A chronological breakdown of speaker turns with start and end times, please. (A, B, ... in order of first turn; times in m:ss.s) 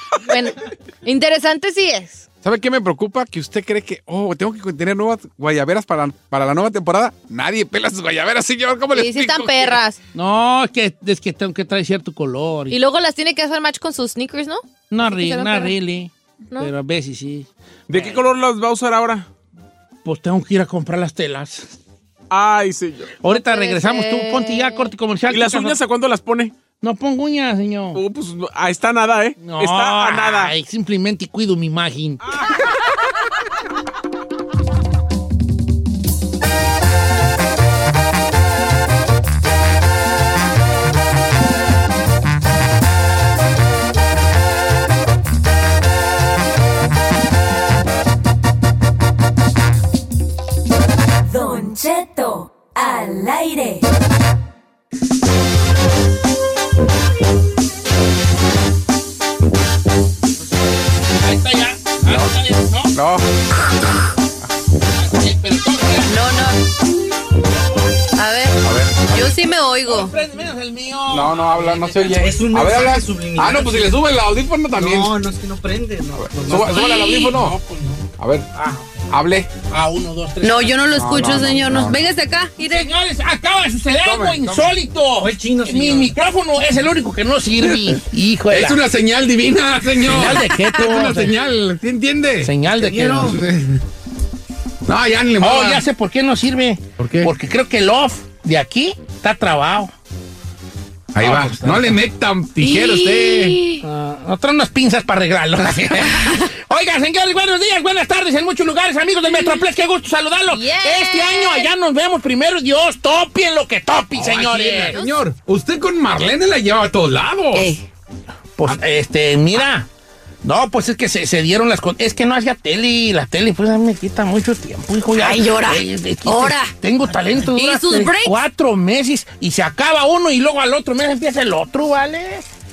0:00.2-0:02.2 A
0:02.4-0:09.8 B
0:08.9-0:10.0 A
0:10.1-0:12.8 C
0:12.7-0:15.7 A
0:14.9-0:18.2 C
0:17.9-0:19.3 D
0:20.0-0:21.8 C
0:22.3-0:23.1 D
0:23.2-0:25.8 C
0:23.3-0:24.9 A
0:25.3-0:26.5 D
0:26.8-0:28.0 C
0:27.9-0:30.5 D
0:29.4-0:32.2 C
0:51.2-0:53.8 E
1:01.2-1:02.9 C
1:02.0-1:02.3 B
1:02.9-1:03.3 B
1:04.9-1:06.2 C
1:06.0-1:06.6 A
1:08.1-1:10.1 A
1:08.6-1:09.3 B
1:09.9-1:12.2 C
1:11.1-1:15.2 B
1:12.1-1:14.0 F
1:14.7-1:16.9 F
1:16.2-1:17.6 B
1:16.7-1:17.6 C
1:18.2-1:18.4 B
1:18.6-1:18.8 C
1:19.1-1:19.5 B
1:19.7-1:21.7 C
1:20.4-1:22.9 A
1:20.9-1:22.0 B
1:22.6-1:28.8 C
1:24.0-1:24.7 B
1:25.2-1:26.1 F
1:28.5-1:32.5 B
1:30.0-1:31.3 C
1:32.4-1:33.4 C
1:32.7-1:33.4 F
1:33.2-1:33.8 B
1:34.8-1:35.8 B
1:35.4-1:39.9 C
1:37.0-1:37.3 B
1:41.1-1:43.6 B
1:41.2-1:42.0 C
1:42.6-1:43.8 A
1:43.8-1:55.0 C
1:49.3-1:49.6 A
1:50.5-1:51.7 A
1:54.1-1:57.7 B
1:54.9-1:55.2 A
1:57.5-1:57.8 A
1:58.6-1:59.9 C
2:00.4-2:12.5 C
2:05.2-2:06.7 A
2:07.4-2:08.4 A